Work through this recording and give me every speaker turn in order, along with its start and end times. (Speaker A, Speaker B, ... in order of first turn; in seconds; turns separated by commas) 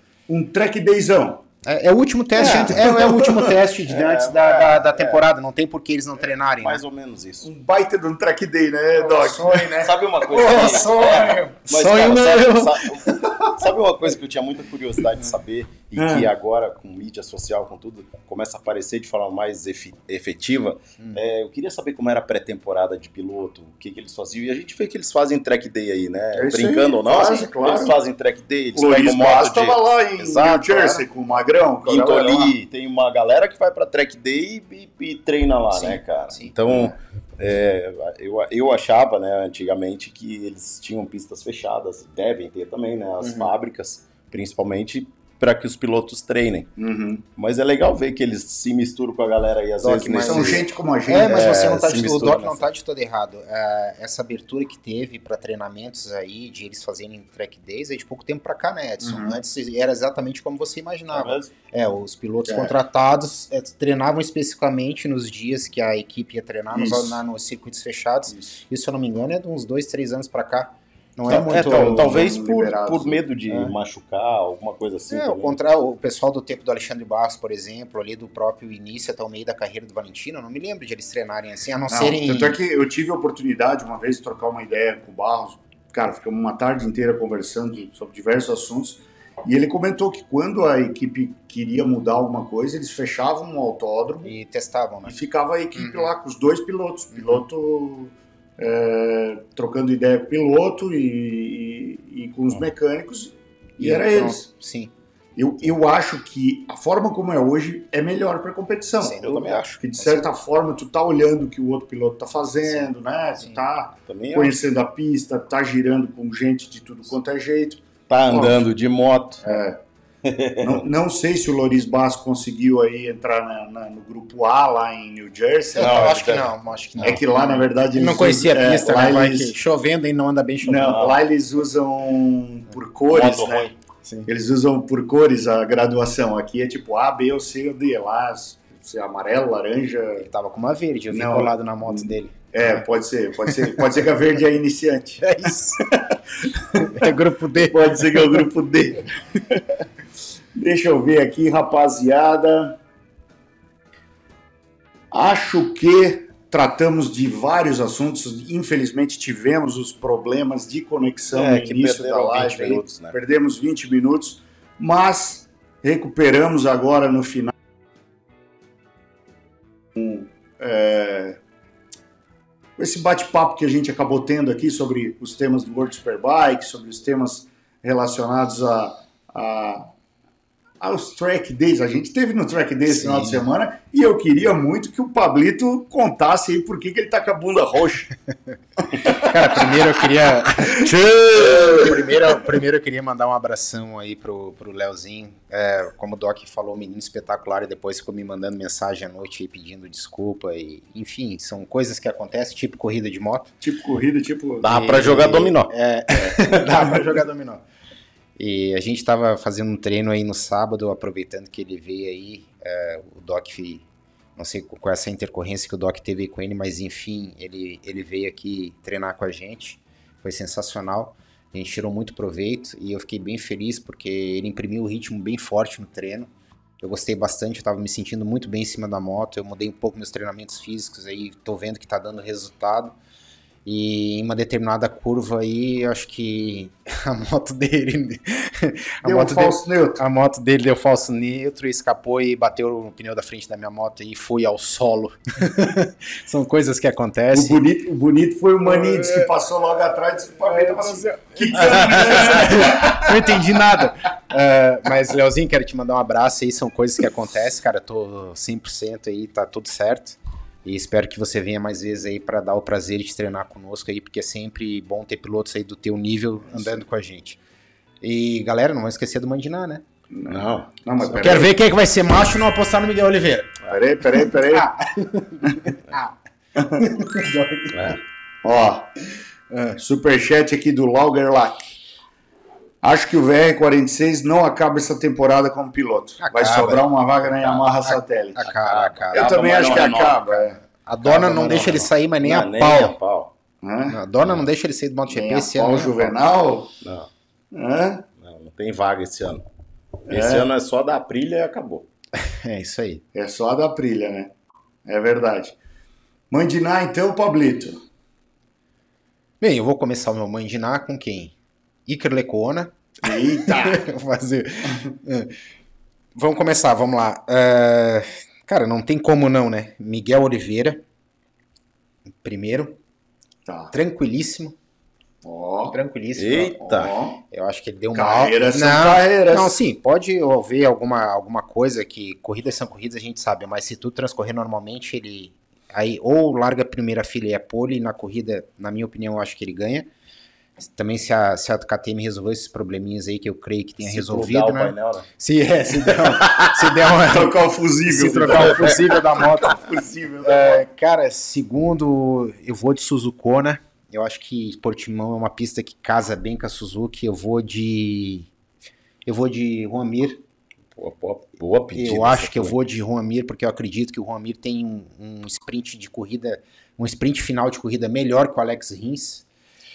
Speaker A: 0.3-1.4, Speaker B: 1.6-6.8, Speaker C: 2.4-3.0, Speaker A: 2.4-3.6, Speaker C: 3.9-5.2, Speaker C: 6.6-7.5, Speaker A: 7.4-11.0, Speaker B: 8.9-13.3, Speaker C: 9.8-31.0, Speaker A: 16.0-16.3, Speaker A: 26.3-27.9, Speaker A: 28.7-32.5, Speaker C: 31.9-46.7, Speaker B: 35.7-36.8, Speaker B: 43.2-43.5, Speaker A: 46.8-47.2, Speaker C: 47.4-52.7, Speaker B: 49.8-72.3, Speaker A: 50.2-52.0, Speaker A: 59.0-59.3, Speaker C: 61.1-61.5, Speaker A: 62.5-62.7, Speaker A: 66.7-67.2, Speaker A: 71.3-73.2, Speaker C: 71.3-75.6, Speaker B: 73.5-73.7, Speaker B: 75.1-82.6, Speaker A: 81.9-94.3, Speaker B: 94.2-95.2, Speaker A: 95.0-104.4, Speaker B: 95.7-96.1, Speaker B: 97.1-97.4, Speaker B: 103.8-104.9, Speaker A: 105.3-109.2, Speaker B: 109.0-110.3, Speaker C: 109.2-109.8, Speaker A: 109.8-118.6, Speaker B: 112.6-113.6, Speaker C: 114.1-114.5, Speaker C: 118.1-119.4, Speaker A: 119.4-119.8, Speaker C: 120.2-120.8, Speaker A: 120.6-126.2, Speaker B: 125.7-131.1, Speaker C: 125.8-127.2, Speaker A: 127.0-129.5, Speaker A: 130.6-133.7, Speaker C: 130.9-131.2, Speaker C: 133.1-133.7, Speaker B: 134.0-134.3, Speaker A: 134.3-140.3, Speaker B: 140.2-142.8, Speaker A: 141.1-149.7, Speaker B: 143.4-143.8, Speaker B: 145.2-145.8, Speaker B: 146.8-148.4, Speaker A: 150.6-152.8, Speaker A: 155.1-167.5, Speaker C: 161.3-163.2, Speaker A: 169.9-171.4, Speaker A: 172.8-179.8, Speaker A: 180.8-188.1, Speaker B: 182.9-183.4, Speaker A: 188.8-189.8, Speaker B: 189.1-203.5, Speaker C: 190.8-191.9, Speaker A: 191.3-191.9, Speaker A: 203.6-204.7, Speaker C: 204.6-205.7, Speaker B: 204.7-207.6, Speaker A: 206.3-207.0, Speaker B: 208.4-213.8, Speaker B: 214.3-232.9, Speaker B: 233.6-247.6, Speaker A: 239.0-240.0, Speaker A: 247.3-253.2, Speaker B: 248.6-249.3, Speaker B: 250.4-267.4, Speaker C: 251.9-252.7, Speaker B: 268.0-269.8, Speaker A: 270.1-271.5, Speaker C: 270.3-271.4, Speaker B: 271.1-273.6, Speaker A: 273.7-274.7, Speaker B: 274.5-276.1, Speaker A: 276.6-276.8, Speaker B: 276.8-277.9, Speaker C: 277.7-278.0, Speaker A: 278.4-278.9, Speaker B: 279.5-279.8, Speaker A: 279.8-281.7, Speaker A: 282.8-288.4, Speaker B: 286.2-293.0, Speaker C: 288.4-290.2, Speaker A: 289.1-291.5, Speaker C: 291.3-293.3, Speaker A: 293.6-294.0, Speaker B: 293.9-296.2, Speaker A: 295.1-296.7, Speaker C: 296.8-297.1, Speaker A: 297.5-298.0, Speaker C: 298.2-299.4, Speaker C: 300.1-301.9, Speaker A: 300.1-300.5, Speaker B: 302.2-303.0, Speaker A: 303.1-304.3, Speaker A: 304.9-305.6, Speaker A: 306.3-307.8, Speaker B: 309.4-311.3, Speaker B: 311.9-315.4, Speaker A: 313.0-313.9, Speaker B: 316.1-320.8, Speaker B: 322.2-322.8, Speaker A: 323.4-323.7, Speaker B: 323.7-324.6, Speaker A: 325.2-325.8, Speaker B: 325.7-339.9, Speaker C: 326.1-326.9, Speaker A: 326.7-327.2, Speaker A: 327.9-329.6, Speaker B: 340.6-349.6, Speaker C: 343.8-345.1, Speaker C: 345.9-346.6, Speaker A: 347.0-350.6, Speaker C: 348.3-348.7, Speaker B: 350.2-358.3, Speaker B: 359.1-360.2, Speaker C: 360.8-362.6, Speaker B: 361.8-369.2